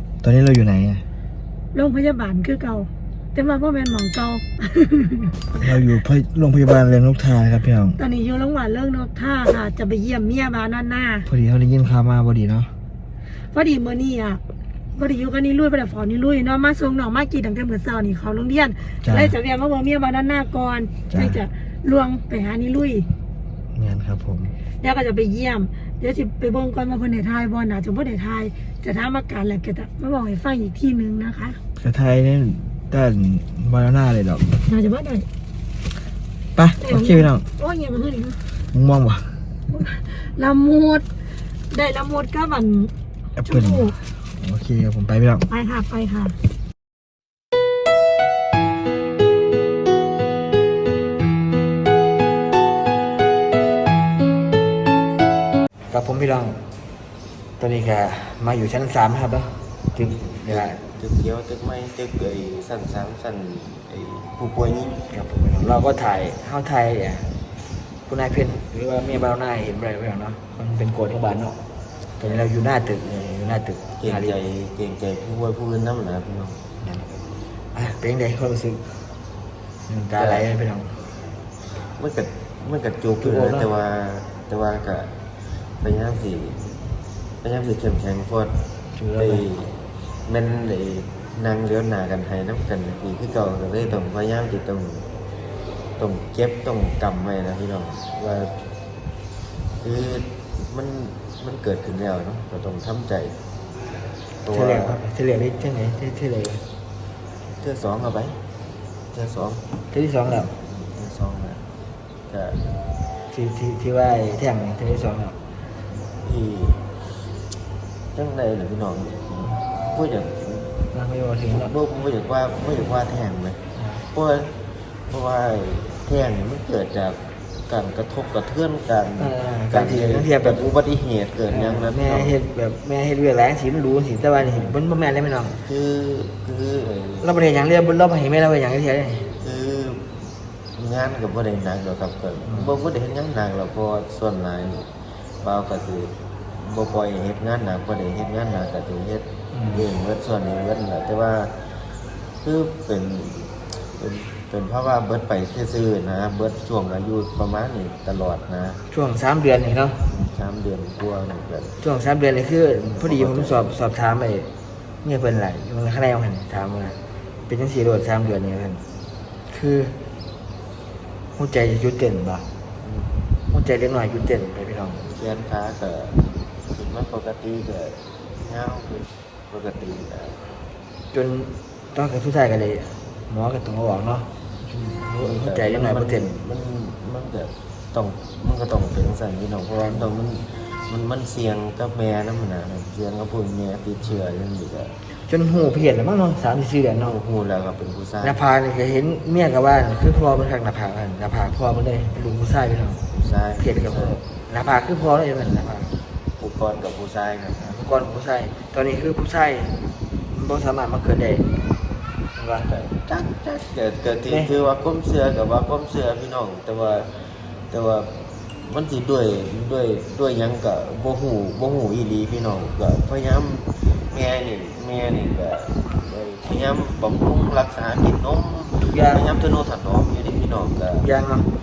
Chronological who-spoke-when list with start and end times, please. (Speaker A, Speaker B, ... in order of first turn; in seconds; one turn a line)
Speaker A: 0.2-1.0
Speaker B: 1.7-5.3
Speaker A: 5.5-8.0
Speaker B: 8.0-11.3
Speaker A: 11.2-12.7
Speaker B: 13.5-14.4
Speaker B: 14.9-23.1
Speaker A: 19.0-19.4
Speaker A: 21.1-21.4
Speaker A: 23.8-24.5
Speaker B: 24.8-31.6
Speaker A: 31.8-34.6
Speaker B: 34.6-35.3
Speaker A: 36.6-37.5
Speaker B: 36.8-38.4
Speaker A: 38.7-39.4
Speaker B: 39.7-41.1
Speaker B: 41.7-42.9
Speaker A: 43.4-45.5
Speaker B: 43.5-44.0
Speaker B: 45.5-46.4
Speaker A: 55.9-56.6
Speaker A: 57.6-60.8
Speaker C: 60.3-65.1
Speaker A: 65.1-67.3
Speaker A: 68.1-71.6
Speaker A: 72.2-74.3
Speaker C: 74.0-76.6
Speaker A: 76.8-77.1
Speaker A: 77.7-78.9
Speaker A: 79.9-81.0
Speaker C: 80.2-80.5
Speaker C: 81.7-85.1
Speaker A: 83.2-83.7
Speaker C: 85.8-86.7
Speaker C: 87.4-88.6
Speaker A: 89.0-89.5
Speaker C: 89.2-95.1
Speaker C: 96.0-98.7
Speaker C: 99.8-103.3
Speaker C: 104.4-105.0
Speaker A: 104.5-106.7
Speaker C: 107.6-108.4
Speaker C: 109.1-109.7
Speaker A: 109.9-110.5
Speaker C: 110.3-111.6
Speaker C: 112.3-112.7
Speaker A: 113.3-115.4
Speaker C: 116.2-117.3
Speaker C: 118.1-120.8
Speaker A: 120.9-121.7
Speaker C: 121.5-132.4
Speaker A: 123.8-124.0
Speaker A: 129.2-130.6
Speaker A: 131.5-135.6
Speaker C: 134.4-134.7
Speaker C: 135.6-137.3
Speaker A: 137.2-139.3
Speaker C: 139.4-144.9
Speaker A: 142.4-142.7
Speaker C: 145.4-151.8
Speaker A: 149.5-149.9
Speaker C: 152.4-158.8
Speaker A: 158.9-160.0
Speaker C: 160.1-161.8
Speaker A: 161.8-164.5
Speaker C: 163.0-163.7
Speaker A: 165.0-168.8
Speaker A: 169.5-170.0
Speaker A: 171.4-172.5
Speaker C: 172.8-173.2
Speaker A: 173.5-175.0
Speaker C: 175.0-180.4
Speaker A: 181.1-186.3
Speaker C: 185.1-194.9
Speaker A: 189.8-190.1
Speaker A: 195.1-197.2
Speaker C: 197.0-198.4
Speaker A: 198.2-203.0
Speaker C: 203.1-204.2
Speaker A: 203.6-205.9
Speaker C: 206.4-207.8
Speaker A: 207.6-209.8
Speaker A: 210.3-211.6
Speaker A: 212.4-212.7
Speaker C: 212.6-231.1
Speaker A: 228.8-229.3
Speaker A: 231.0-231.5